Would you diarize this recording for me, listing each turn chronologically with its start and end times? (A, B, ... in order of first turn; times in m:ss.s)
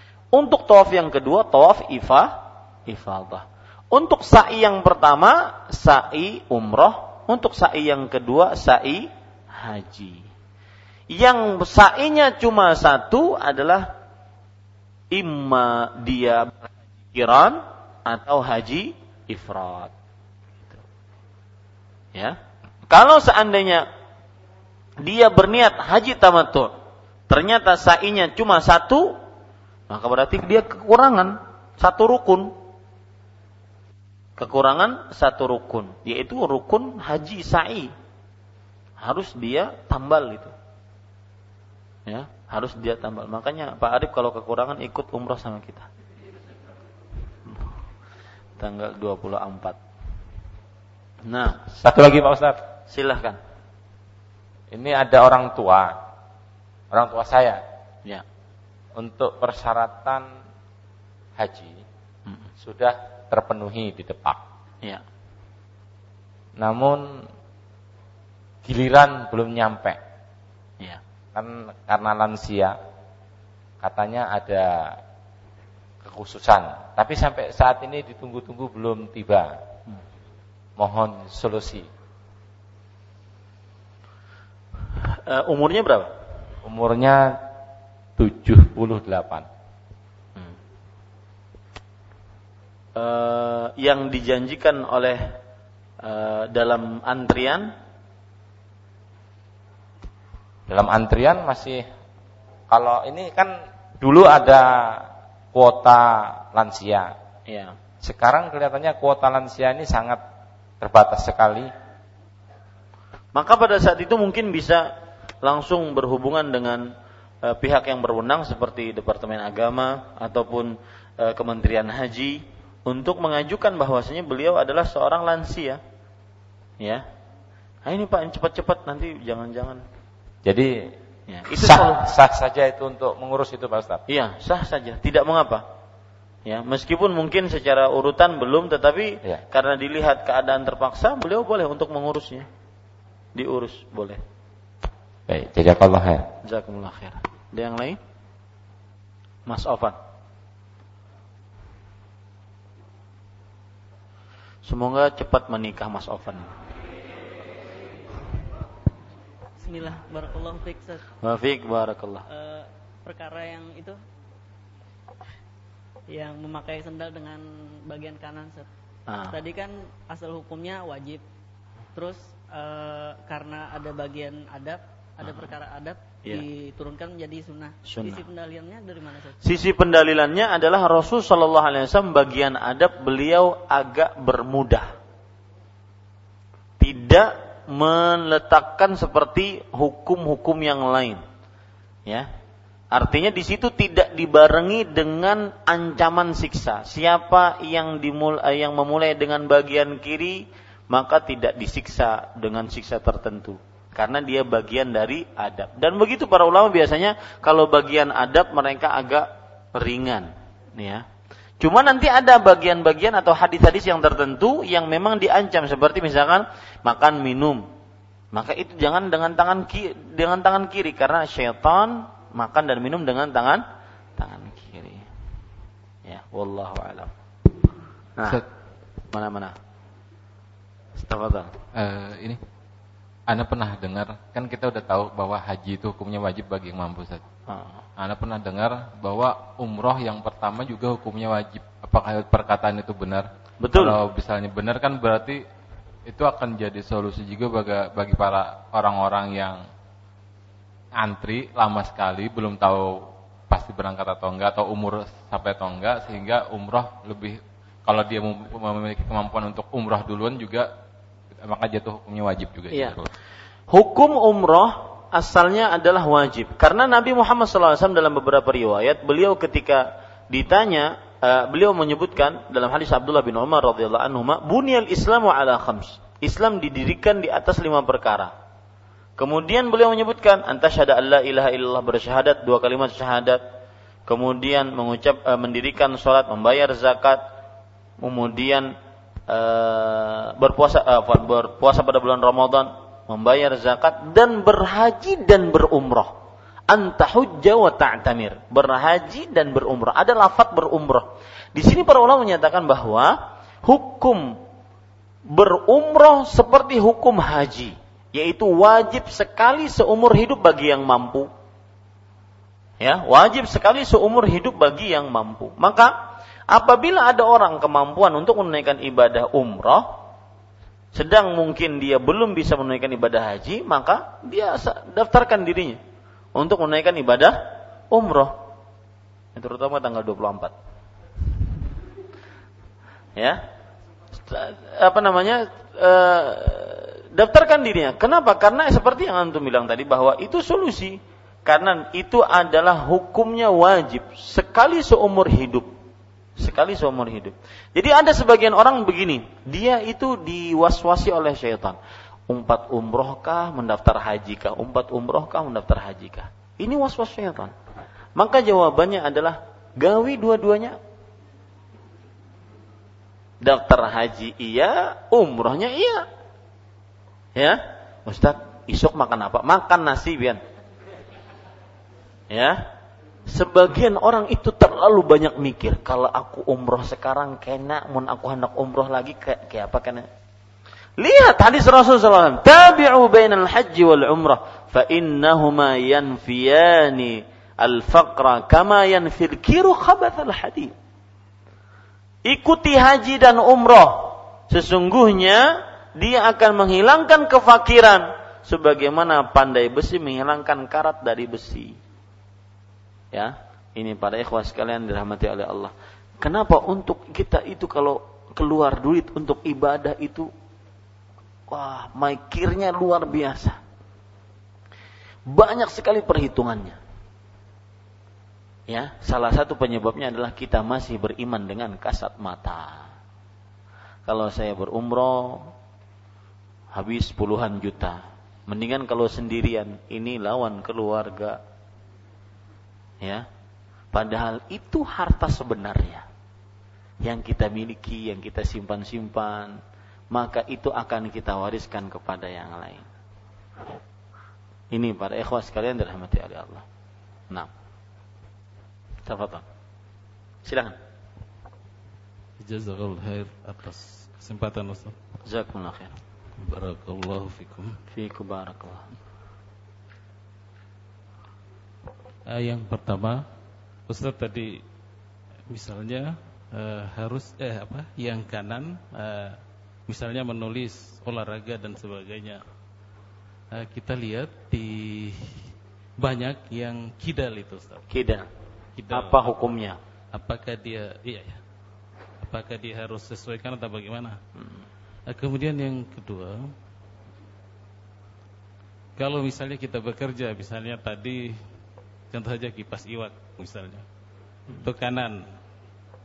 0:00.3-0:10.3 A
0:11.1-0:13.9 A
0:15.1-0:19.9 A
0:22.9-0:23.9 A
0:25.0-0:26.7 A
0:27.3-0:29.2 A
0:29.9-0:32.5 A
0:34.4-0:37.9 A
0:39.0-0:40.5 A
0:42.1-0:45.9 A
0:48.6-0:49.8 A
0:51.2-0:51.6 A
0:51.7-0:52.6 B
0:52.9-0:53.4 A
0:54.7-0:56.0 B
0:56.9-0:57.6 B
0:59.0-1:00.3 B
1:01.4-1:01.8 B
1:02.6-1:04.4 B
1:06.6-1:07.3 B
1:08.6-1:10.0 B
1:11.4-1:12.8 B
1:13.8-1:15.0 B
1:16.0-1:19.6 B
1:20.8-1:21.9 B
1:25.1-1:26.1 A
1:26.6-1:27.4 B
1:28.2-1:29.5 B
1:33.0-1:35.4 A
1:36.0-1:37.7 A
1:40.7-1:41.9 B
1:42.7-1:47.2 B
1:47.5-1:47.8 A
1:48.0-1:50.2 B
1:50.8-1:51.7 B
1:53.4-1:54.9 A
1:55.4-1:56.9 A
1:57.4-2:05.8 A
2:07.9-2:09.8 A
2:10.5-2:10.9 B
2:11.3-2:12.0 A
2:11.5-2:14.0 B
2:14.1-2:15.7 A
2:16.5-2:22.5 A
2:23.4-2:24.2 A
2:25.3-2:26.3 B
2:26.4-2:28.0 A
2:29.5-2:30.0 A
2:34.6-2:36.5 A
2:39.6-2:41.0 C
2:41.2-2:42.2 A
2:42.3-2:44.0 C
2:46.1-2:48.7 C
2:49.1-2:49.4 A
2:49.3-2:51.2 C
2:52.0-2:59.5 C
2:55.2-2:55.5 A
2:57.8-2:58.2 A
2:59.4-3:04.9 A
3:06.8-3:11.2 A
3:12.9-3:31.0 A
3:31.6-3:37.7 A
3:38.3-3:43.6 A
3:44.2-3:45.1 A
3:46.1-3:47.1 A
3:48.2-3:48.4 A
3:49.1-3:49.6 A
3:51.0-3:51.5 A
3:51.8-3:52.4 D
3:53.3-3:57.2 D
3:57.5-3:57.8 A
3:58.0-4:05.4 D
4:03.6-4:04.0 A
4:06.1-4:09.6 D
4:11.0-4:20.7 D
4:21.4-4:23.1 D
4:23.7-4:38.3 A
4:39.2-4:43.4 A
4:44.1-4:47.2 A
4:48.0-4:48.7 A
4:49.3-4:56.2 A
4:56.7-5:04.4 A
5:05.3-5:11.3 A
5:12.8-5:16.0 A
5:16.5-5:20.0 A
5:20.9-5:25.8 A
5:26.4-5:28.4 A
5:29.4-5:30.5 A
5:33.2-5:33.4 A
5:34.3-5:45.7 A
5:46.4-5:51.8 A
5:52.3-5:57.5 A
5:58.2-6:00.8 A
6:03.4-6:06.1 A
6:07.4-6:10.4 A
6:12.3-6:12.6 A
6:13.3-6:20.1 A
6:21.0-6:30.7 A
6:32.3-6:41.8 A
6:43.1-6:50.3 A
6:51.5-6:53.6 A
6:55.3-6:56.8 A
6:58.7-7:02.9 A
7:04.1-7:05.5 A
7:06.7-7:11.4 A
7:13.0-7:13.3 A
7:13.9-7:16.1 A
7:17.0-7:19.6 A
7:20.1-7:22.9 A
7:24.7-7:26.6 A
7:29.1-7:29.4 A
7:30.5-7:30.8 A
7:32.4-7:35.0 E
7:35.2-7:35.9 A
7:36.4-7:37.8 E
7:37.9-7:38.9 A
7:42.3-7:43.2 E
7:43.9-7:44.6 E
7:45.5-7:52.4 E
7:53.5-7:55.3 E
7:56.0-7:57.8 E
7:57.9-7:58.3 A
7:58.8-7:59.4 E
7:58.9-7:59.8 A
8:00.1-8:01.4 E
8:02.2-8:04.2 E
8:05.1-8:06.5 E
8:09.0-8:11.3 E
8:12.1-8:13.8 E
8:14.6-8:15.2 E